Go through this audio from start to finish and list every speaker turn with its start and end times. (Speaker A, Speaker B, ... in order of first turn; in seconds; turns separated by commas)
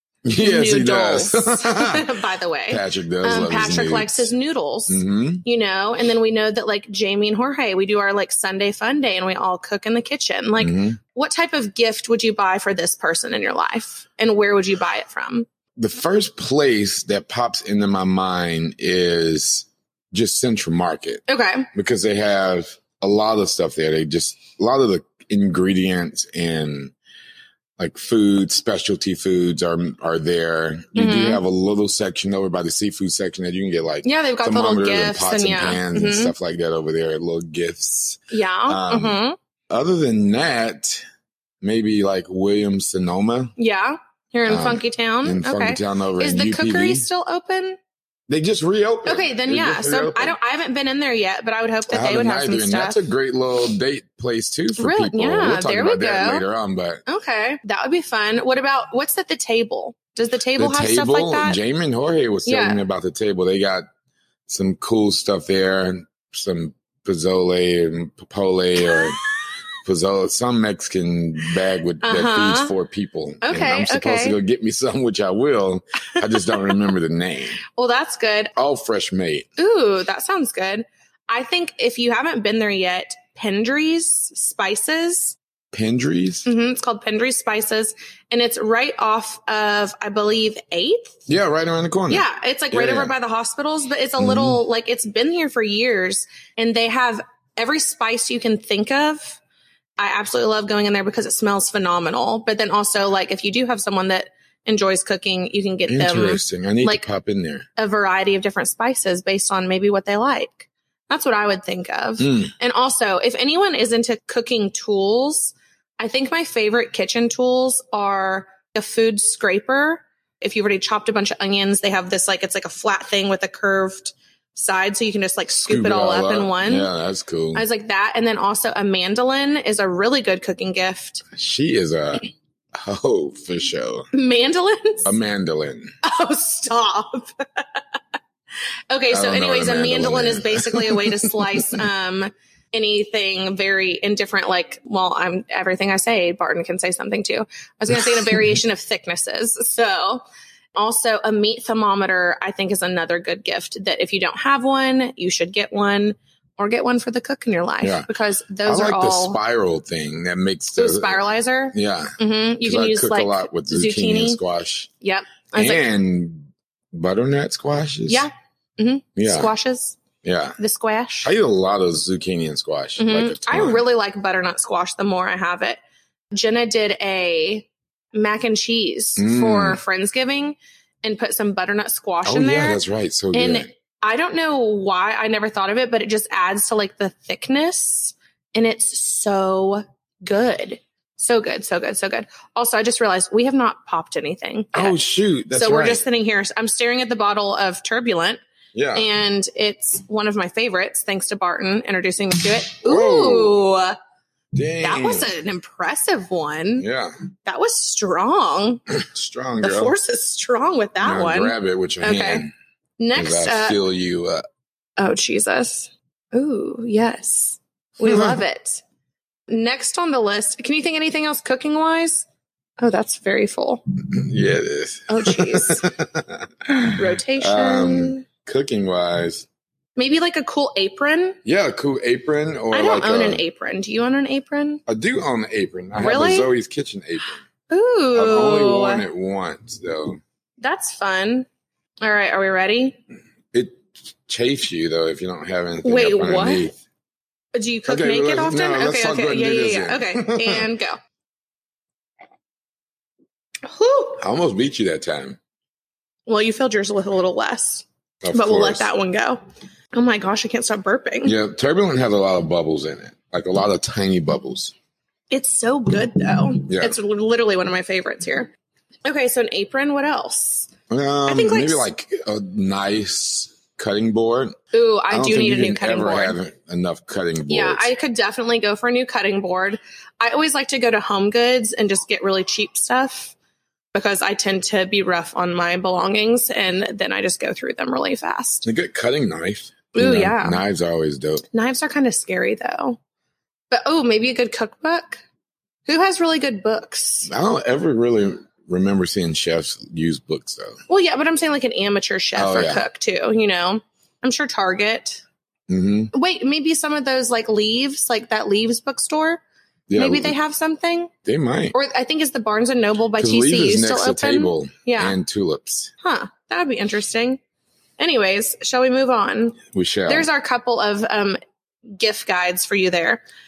Speaker A: 0.2-2.0, Speaker B: 0.4-15.5, Speaker A: 2.7-4.3, Speaker A: 4.9-5.4, Speaker A: 10.6-11.0, Speaker A: 15.8-26.9, Speaker B: 21.3-21.7, Speaker A: 27.8-39.2, Speaker B: 30.9-31.4, Speaker B: 34.0-36.3, Speaker B: 38.3-39.4, Speaker A: 39.7-41.0, Speaker A: 41.6-43.5, Speaker B: 43.6-47.8, Speaker A: 44.5-47.1, Speaker A: 48.3-50.4, Speaker B: 49.0-53.0, Speaker A: 51.9-57.0, Speaker B: 54.8-56.4, Speaker B: 57.0-61.6, Speaker A: 60.6-63.8, Speaker B: 62.4-62.8, Speaker A: 64.5-69.2, Speaker A: 69.8-77.6, Speaker B: 72.0-72.7, Speaker B: 73.4-74.4, Speaker B: 77.7-78.5, Speaker A: 78.5-79.5, Speaker B: 79.6-85.4, Speaker A: 85.7-86.5, Speaker B: 86.5-91.2, Speaker A: 91.3-93.1, Speaker B: 92.1-99.4, Speaker A: 94.2-94.6, Speaker B: 100.0-107.0, Speaker A: 105.9-107.7, Speaker B: 107.8-126.9, Speaker A: 112.2-112.5, Speaker A: 125.7-127.6, Speaker B: 127.5-131.2, Speaker A: 131.3-134.1, Speaker B: 134.1-135.1, Speaker A: 135.0-135.9, Speaker B: 136.0-137.6, Speaker B: 138.9-150.2, Speaker A: 139.1-141.8, Speaker B: 150.7-159.4, Speaker A: 157.8-158.1, Speaker A: 158.6-164.9, Speaker B: 160.7-164.4, Speaker B: 165.0-165.8, Speaker A: 165.5-168.2, Speaker B: 168.1-170.0, Speaker A: 169.2-169.5, Speaker A: 170.2-170.6, Speaker B: 170.6-171.3, Speaker A: 171.2-173.8, Speaker B: 173.0-175.8, Speaker B: 176.3-182.8, Speaker A: 179.2-179.8, Speaker A: 182.2-183.7, Speaker B: 183.3-195.0, Speaker A: 194.7-196.0, Speaker B: 195.5-198.4, Speaker A: 198.7-199.1, Speaker B: 198.9-203.9, Speaker A: 202.8-203.6, Speaker A: 204.5-205.3, Speaker B: 204.8-206.8, Speaker A: 206.8-207.1, Speaker B: 207.4-208.8, Speaker A: 208.9-209.9, Speaker B: 209.6-212.4, Speaker A: 211.0-212.5, Speaker B: 213.0-213.8, Speaker A: 213.1-214.4, Speaker B: 215.0-218.8, Speaker A: 218.1-218.4, Speaker B: 219.5-222.2, Speaker B: 222.8-223.8, Speaker A: 224.1-229.4, Speaker B: 225.1-225.9, Speaker B: 226.9-228.2, Speaker B: 230.0-231.4, Speaker A: 231.4-233.4, Speaker B: 232.7-234.8, Speaker A: 234.9-237.4, Speaker B: 236.0-236.5, Speaker B: 237.7-239.0, Speaker A: 238.1-240.2, Speaker B: 240.6-241.4, Speaker B: 242.0-243.0, Speaker A: 243.5-246.8, Speaker B: 245.8-246.7, Speaker B: 247.5-251.0, Speaker A: 247.9-250.7, Speaker B: 253.6-254.2, Speaker A: 254.2-255.4, Speaker B: 256.3-259.4, Speaker A: 258.2-258.9, Speaker B: 259.9-261.3, Speaker A: 261.2-264.7, Speaker B: 265.3-268.5, Speaker A: 266.7-267.0, Speaker B: 269.0-270.7, Speaker A: 270.9-274.6, Speaker B: 271.3-271.9, Speaker B: 274.7-276.4, Speaker A: 275.1-277.9, Speaker B: 277.5-283.3, Speaker B: 283.9-288.6, Speaker A: 288.6-291.4, Speaker B: 289.9-290.6, Speaker B: 291.5-293.0, Speaker B: 293.7-295.2, Speaker B: 295.9-297.3, Speaker A: 297.2-300.8, Speaker B: 300.9-305.2, Speaker A: 302.4-302.8, Speaker A: 305.7-306.1, Speaker B: 306.1-309.4, Speaker A: 309.9-310.4, Speaker B: 309.9-311.1, Speaker A: 311.2-311.7, Speaker B: 311.7-315.2, Speaker A: 313.2-315.9, Speaker B: 316.0-317.4, Speaker B: 318.0-321.4, Speaker A: 319.7-320.3, Speaker B: 321.9-323.2